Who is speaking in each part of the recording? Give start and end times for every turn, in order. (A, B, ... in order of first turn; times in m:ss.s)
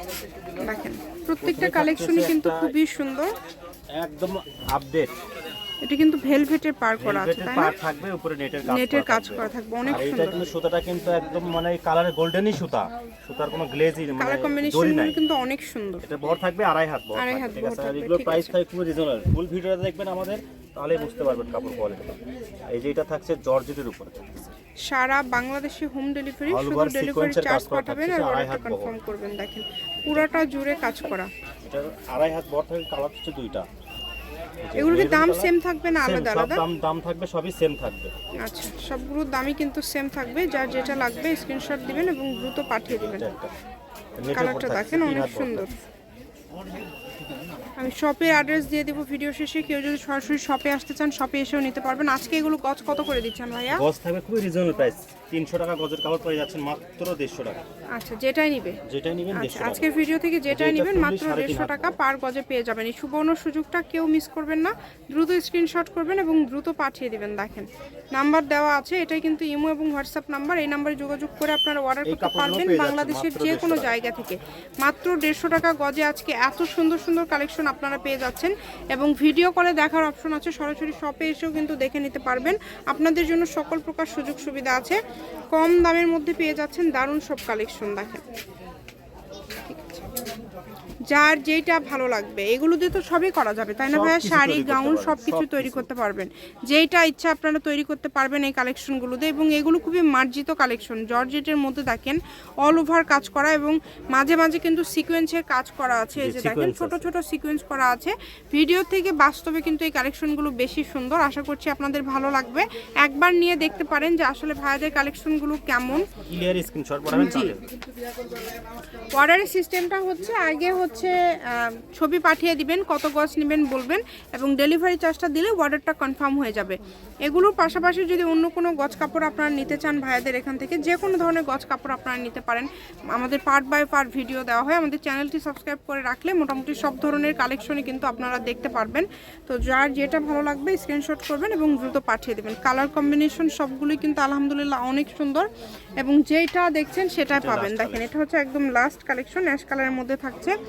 0:00.6-0:03.3 A
0:01.4-0:02.7 B
0:04.0-0:05.2 B
0:05.8-0:07.7 A
0:07.0-0:15.2 B
0:08.7-0:10.4 A
0:14.1-0:16.0 A
0:16.0-0:22.2 B
0:17.2-0:18.5 A
0:22.7-0:24.5 B
0:24.9-0:31.3 A
0:26.5-0:29.0 B
0:31.6-0:33.7 B
0:34.6-0:38.1 B
0:34.8-0:36.6 A
0:38.4-0:43.3 A
0:42.9-0:43.5 B
0:44.2-0:45.8 B
0:44.3-0:45.7 A
0:47.8-0:53.8 A
0:53.7-0:57.6 B
0:57.9-0:58.8 A
0:58.9-0:59.9 B
0:59.3-1:25.0 A
1:00.5-1:02.0 B
1:12.1-1:13.9 B
1:25.5-1:28.2 A
1:29.7-1:30.1 A
1:31.1-1:56.1 A
1:33.9-1:35.9 B
1:46.2-1:47.1 B
1:56.3-1:57.6 B
1:57.1-1:57.6 A
1:59.2-2:25.5 A
2:26.0-2:30.6 A
2:27.4-2:28.1 B